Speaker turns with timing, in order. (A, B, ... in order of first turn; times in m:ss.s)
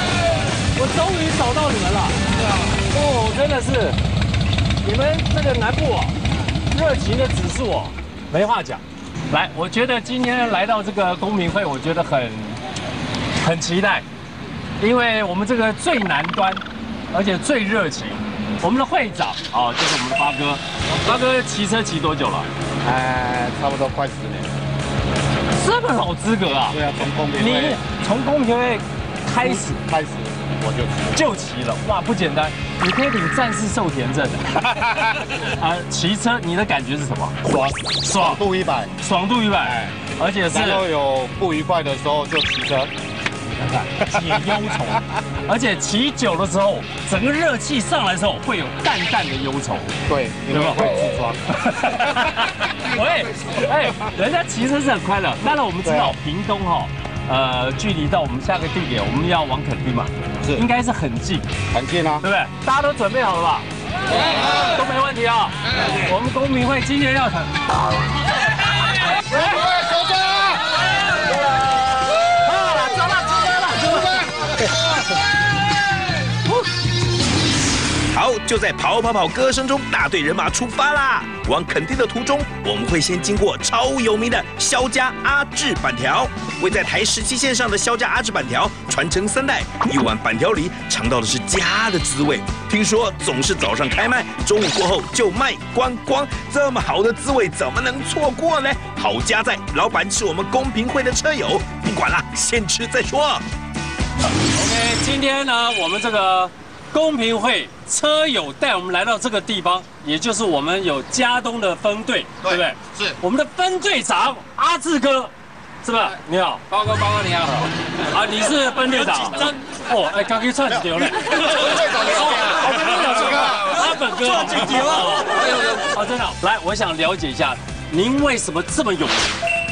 0:00.7-0:02.2 A
0:02.9-0:04.0 A
0:04.8-0:06.1 A
0:06.7-0:12.6 A
0:13.4-0:14.0 A
0:14.8-0:22.5 A
0:22.8-0:24.5 B
0:25.6-0:26.8 A
0:26.8-0:27.5 B
0:27.3-0:29.8 A
0:29.8-0:30.8 B
0:31.1-0:34.6 A
0:35.6-0:37.5 A
0:38.0-0:38.4 A
0:38.3-0:38.8 B
0:39.0-0:40.8 A
0:40.6-0:42.9 B
0:43.8-0:49.9 A
0:50.1-0:51.3 B
0:50.5-0:50.9 A
0:51.5-1:01.4 A
1:01.7-1:02.1 B
1:02.2-1:03.7 A
1:04.2-1:07.5 A
1:09.2-1:09.7 A
1:12.3-1:14.5 A
1:18.1-1:43.4 C
1:44.4-1:55.3 A
1:55.8-1:56.6 A
1:56.7-1:57.7 D
1:58.1-2:09.4 A
1:58.8-1:59.6 D
2:01.5-2:01.8 D
2:04.2-2:05.9 D